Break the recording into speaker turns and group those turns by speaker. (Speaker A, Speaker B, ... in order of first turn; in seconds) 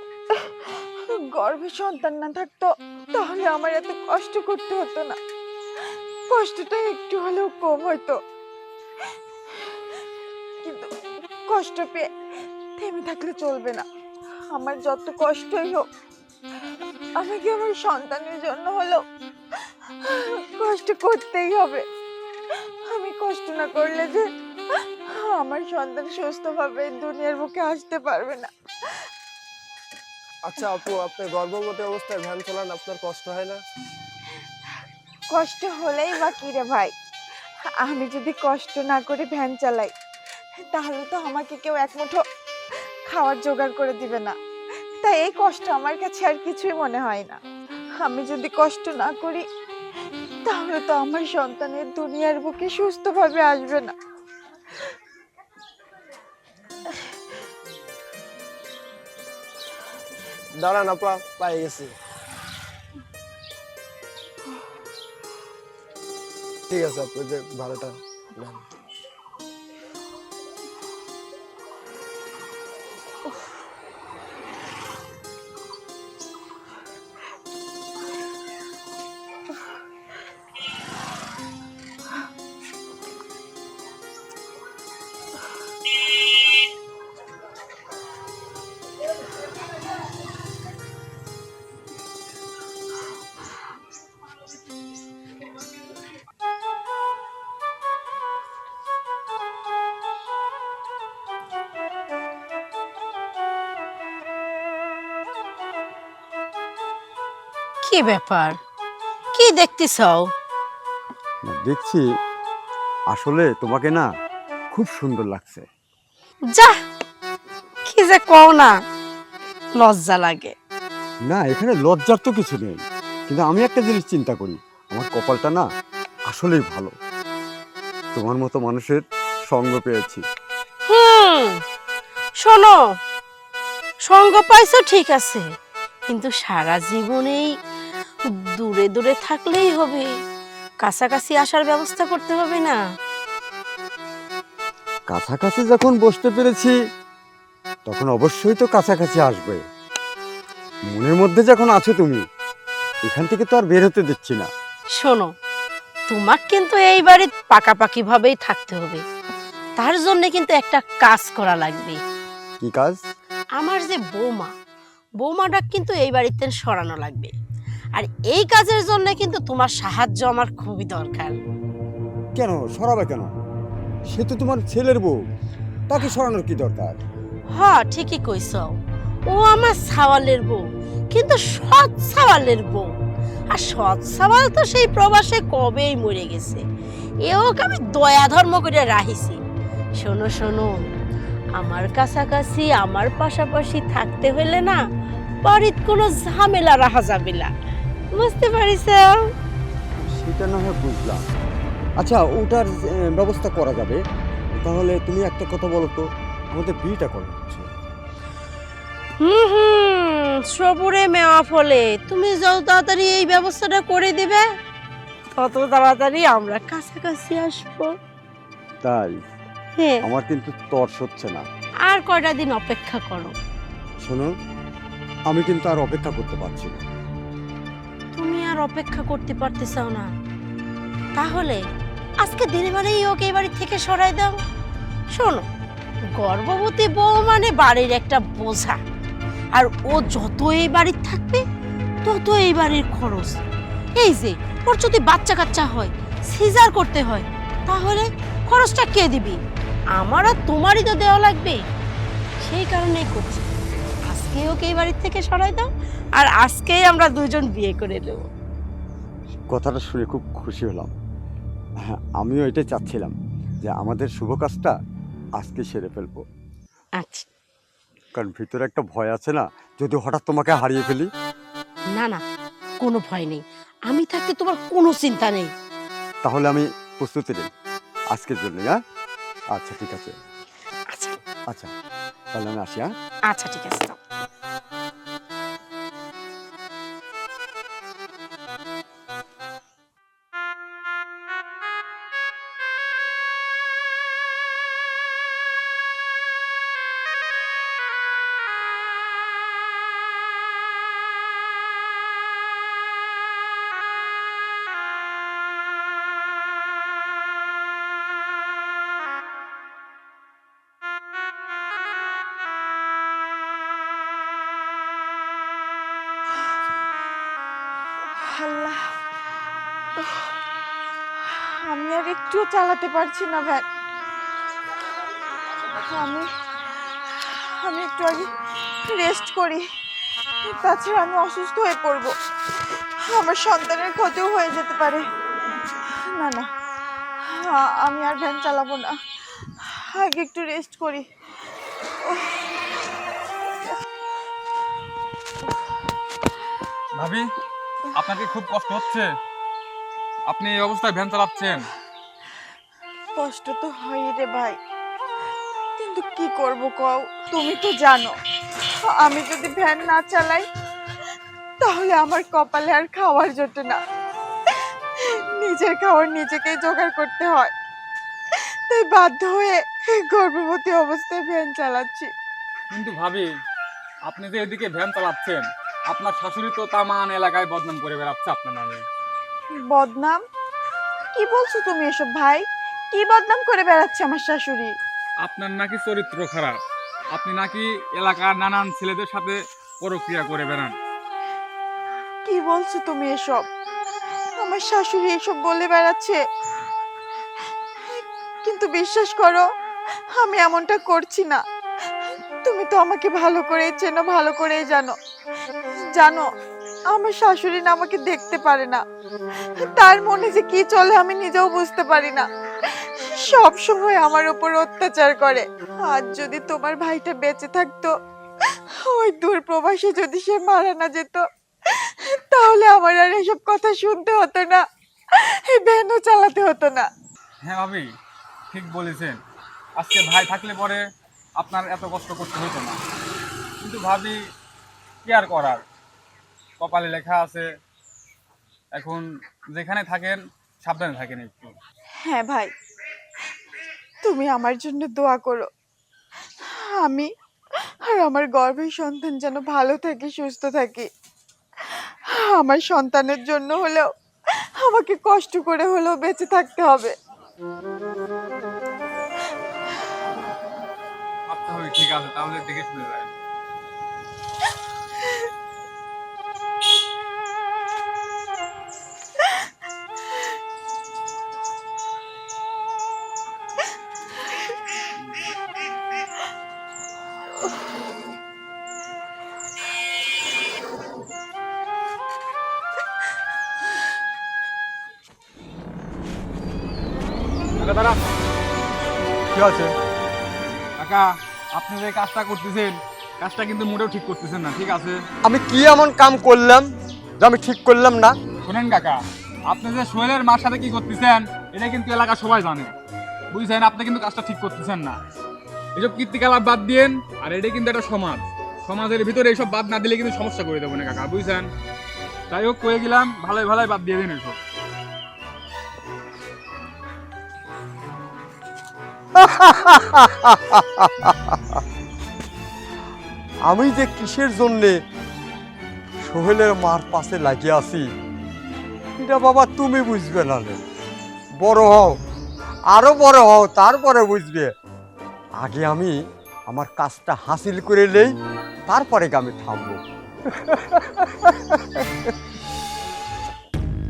Speaker A: 0.3-5.2, 6.3-8.2, 10.6-10.9, 11.5-12.1, 12.8-13.8, 14.5-15.9, 17.2-19.0, 20.0-21.8, 22.9-28.5, 35.3-36.9, 37.8-39.9, 40.7-42.2, 43.1-44.4, 45.0-47.4, 48.0-49.4, 50.5-53.9, 318.2-318.9, 320.0-320.3, 321.2-323.6, 325.7-326.3, 327.1-328.3, 328.8-329.6, 330.4-332.1, 333.0-335.1, 335.9-336.5, 337.2-339.0, 339.6-341.0, 342.1-342.3, 353.2-354.6, 355.8-358.1, 358.9-360.5, 361.6-363.8, 364.5-367.5, 368.4-372.1, 379.6-380.2, 381.1-384.7, 392.2-393.5, 394.4-396.2, 397.9-399.5, 400.2-401.4, 402.4-404.9, 405.9-406.2, 406.9-408.8, 409.6-417.9, 418.9-426.9, 442.1-442.5, 444.0-445.5, 446.4-447.1, 447.8-450.9, 451.7-456.9
Speaker B: 30.4-33.6, 60.6-61.9, 66.7-68.6
Speaker C: 107.8-108.6, 109.3-110.3, 117.9-118.7, 119.8-120.5, 130.9-131.6, 132.4-132.8, 134.1-135.4, 136.1-137.5, 138.4-140.1, 140.8-142.8, 155.0-155.3, 156.1-159.0, 159.8-162.0, 163.6-164.5, 165.2-167.3, 167.9-171.4, 177.5-178.8, 179.3-182.9, 183.5-186.6, 187.2-189.4, 189.9-190.8, 191.6-194.8, 195.4-197.5, 198.1-199.1, 209.2-214.4, 215.3-217.9, 219.8-220.0, 221.9-223.3, 228.2-230.1, 231.2-231.6, 232.2-234.4, 235.1-235.4, 236.2-238.8, 239.5-241.4, 242.0-243.4, 244.0-249.4, 250.0-251.6, 252.4-253.5, 254.1-258.2, 267.0-267.2, 271.9-272.2, 272.8-275.5, 280.9-281.2, 283.3-284.0
Speaker D: 111.4-112.0, 113.1-114.1, 114.7-115.7, 121.3-125.7, 126.3-126.9, 128.1-130.2, 145.1-146.7, 147.8-149.6, 150.9-152.2, 153.1-154.5, 162.6-163.0, 172.3-173.3, 174.1-175.1, 175.9-177.0, 200.0-201.2, 202.0-204.0, 204.6-207.7, 218.8-219.2, 220.0-221.4, 224.0-224.3, 225.3-226.8, 259.5-260.9, 261.8-264.7, 265.4-266.2, 268.1-271.1, 276.2-277.5, 278.1-278.8, 279.5-280.1, 282.3-282.9, 489.3-489.7, 495.2-496.7, 497.2-498.1, 519.1-521.6, 523.5-524.8, 526.0-527.9, 529.0-530.6, 531.4-532.0, 532.7-534.5, 535.4-536.0, 536.5-538.1, 538.7-542.1
Speaker E: 347.0-347.2, 348.0-349.1, 350.3-351.6, 372.7-373.2, 374.1-378.8, 385.2-386.6, 387.1-390.7, 427.4-427.9, 428.5-429.2, 429.8-430.8, 431.4-432.8, 433.6-434.2, 435.0-435.6, 436.6-437.5, 438.7-441.5, 461.3-463.1, 487.6-488.0, 490.8-495.0, 498.4-502.7, 503.3-505.0, 505.8-511.5, 512.3-514.4